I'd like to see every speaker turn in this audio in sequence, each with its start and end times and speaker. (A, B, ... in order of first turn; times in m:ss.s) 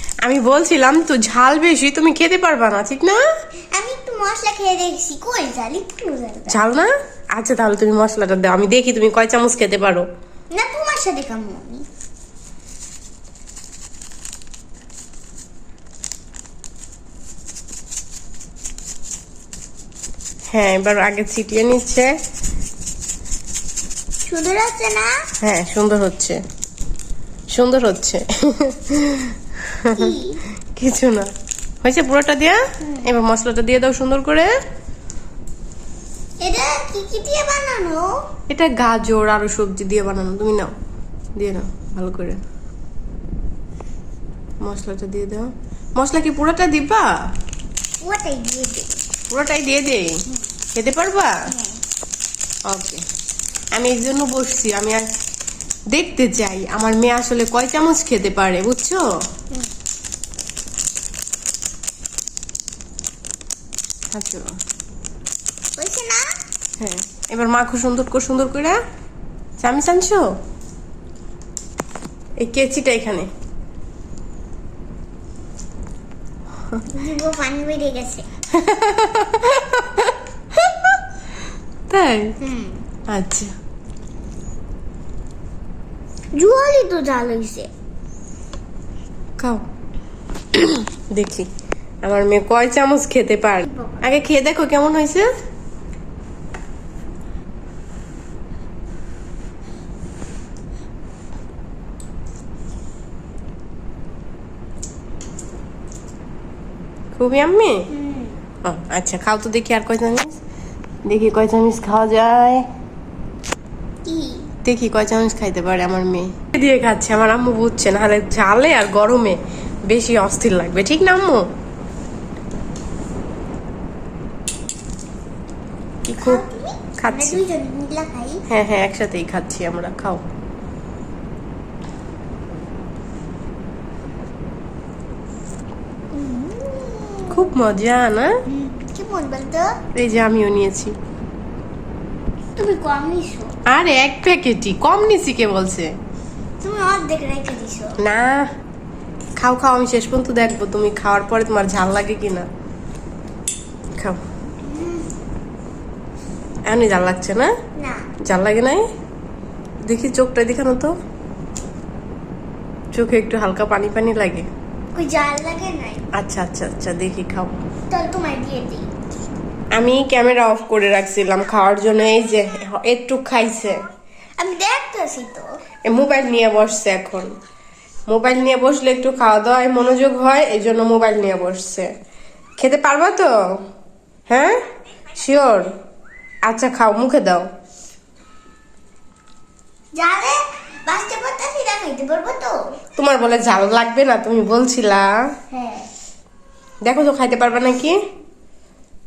0:00.2-0:03.2 A
0:03.7-0:06.6 B
0:06.5-0:10.0 A
0:10.5-0:11.8 B
0:20.5-0:22.1 A
0:24.2-0:25.2 B
0:25.4-0:26.4 A
0:27.5-0:30.2 A
0:30.0-0:30.4 B
0:30.7-0:31.3 A
0:31.8-0:34.5 A
0:32.8-0:33.1 B
0:36.4-0:38.2 B
0:38.5-0:40.7 A
0:41.4-0:42.4 A
0:44.6-0:47.1 A
0:48.0-0:49.0 B
0:49.3-0:50.2 A
0:50.7-0:51.4 A
0:51.5-0:51.8 B
0:52.7-0:53.0 A
0:53.7-0:55.1 A
0:55.9-0:59.0 A
1:04.1-1:04.6 A
1:05.8-1:06.3 B
1:06.8-1:08.8 A
1:09.6-1:10.3 A
1:12.4-1:13.3 A
1:16.9-1:18.2 B
1:18.5-1:21.0 A
1:21.9-1:22.4 A
1:22.4-1:22.9 B
1:23.1-1:23.5 A
1:26.3-1:27.7 B
1:29.4-1:29.6 A
1:30.5-1:31.5 A
1:32.0-1:35.3 A
1:33.7-1:34.0 B
1:47.1-1:47.9 A
1:47.9-1:48.4 B
1:48.6-1:50.4 A
1:51.1-1:52.7 A
1:54.0-1:54.5 B
1:54.6-2:01.5 A
2:06.0-2:06.4 A
2:06.2-2:08.4 B
2:07.0-2:07.4 A
2:08.5-2:10.2 A
2:16.1-2:17.5 B
2:17.3-2:18.4 A
2:18.5-2:19.8 B
2:19.9-2:20.9 A
2:22.6-2:23.5 B
2:23.7-2:25.9 A
2:26.6-2:28.0 B
2:28.0-2:28.5 A
2:29.4-2:32.5 A
2:34.6-2:35.1 B
2:36.7-2:37.5 A
2:37.8-2:38.1 B
2:38.2-2:38.8 A
2:39.8-2:40.9 A
2:42.9-2:44.5 A
2:44.9-2:46.1 B
2:46.1-2:47.6 A
2:47.9-2:48.9 B
2:49.8-2:53.8 A
2:54.4-2:55.5 B
2:55.8-2:57.3 A
2:58.1-3:01.9 A
3:02.6-3:03.3 A
3:04.3-3:04.6 A
3:05.2-3:05.7 A
3:06.5-3:07.5 A
3:10.0-3:12.7 B
3:13.0-3:15.1 A
3:15.5-3:15.9 B
3:16.8-3:18.0 A